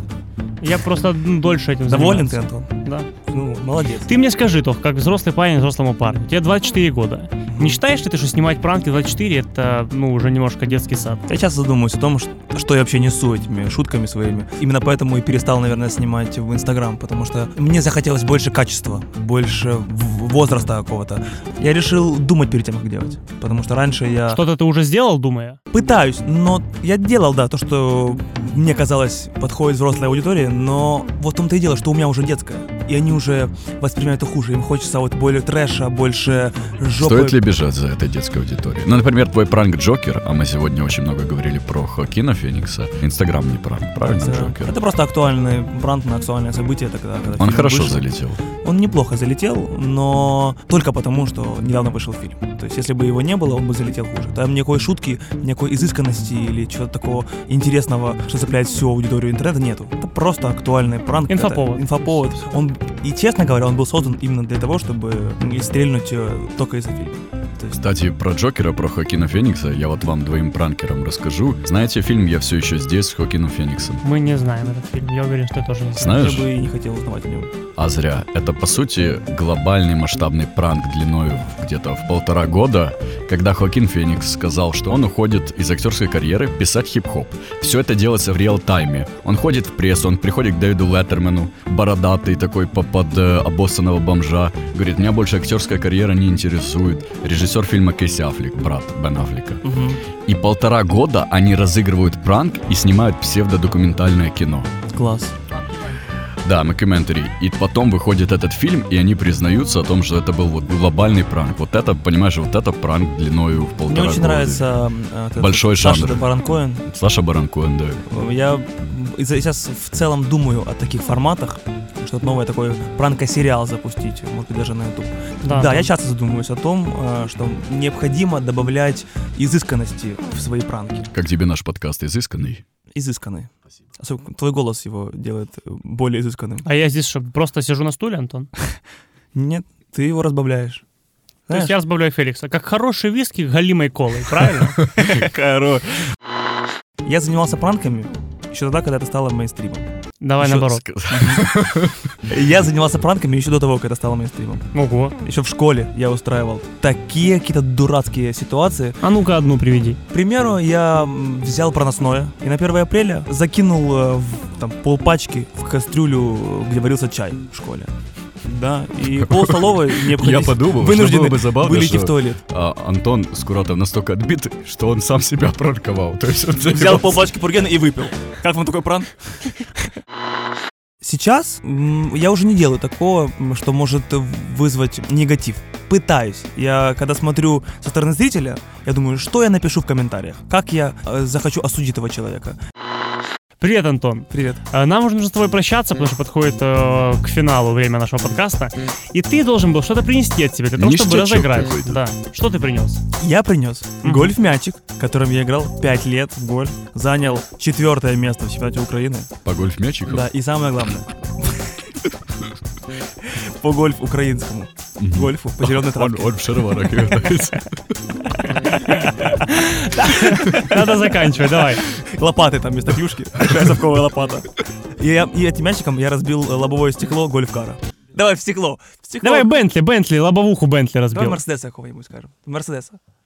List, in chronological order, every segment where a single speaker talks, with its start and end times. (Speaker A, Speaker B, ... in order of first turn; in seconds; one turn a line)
Speaker A: 0.6-3.1
Speaker B: 1.9-2.7
Speaker B: 3.2-4.1
Speaker A: 4.0-11.2
Speaker B: 7.5-7.8
Speaker B: 11.3-24.4
Speaker A: 24.3-25.6
Speaker B: 25.7-37.4
Speaker C: 37.0-44.8
Speaker B: 44.0-48.0
Speaker C: 47.4-48.4
Speaker B: 48.6-67.8
Speaker A: 61.3-62.2
Speaker C: 67.7-74.0
Speaker A: 74.0-76.3
Speaker C: 76.0-76.5
Speaker B: 76.0-77.5
Speaker C: 77.8-99.6
Speaker B: 99.6-100.0
Speaker C: 100.2-104.7
Speaker B: 104.9-105.3
Speaker C: 106.4-114.8
Speaker B: 113.9-116.8
Speaker C: 115.4-118.0
Speaker B: 118.1-131.1
Speaker A: 125.4-125.9
Speaker C: 131.1-132.6
Speaker B: 132.9-136.7
Speaker A: 136.6-138.5
Speaker B: 139.3-140.8
Speaker B: 141.5-141.7
Speaker A: 141.5-144.8
Speaker B: 144.8-146.0
Speaker B: 147.0-149.9
Speaker A: 150.2-150.8
Speaker C: 150.4-152.1
Speaker B: 151.1-151.5
Speaker B: 152.3-154.7
Speaker A: 154.7-155.2
Speaker B: 155.2-159.0
Speaker A: 159.0-160.0
Speaker B: 160.1-167.9
Speaker B: 168.4-172.4
Speaker C: 169.2-177.3
Speaker B: 176.6-179.1
Speaker B: 181.0-192.6
Speaker A: 193.6-203.0
Speaker B: 194.3-194.6
Speaker C: 200.8-202.0
Speaker B: 203.2-209.3
Speaker A: 204.0-204.3
Speaker C: 209.4-210.3
Speaker B: 210.1-211.7
Speaker B: 213.3-216.9
Speaker C: 215.0-217.9
Speaker A: 218.8-221.8
Speaker B: 219.9-229.6
Speaker A: 229.2-231.4
Speaker B: 231.1-233.0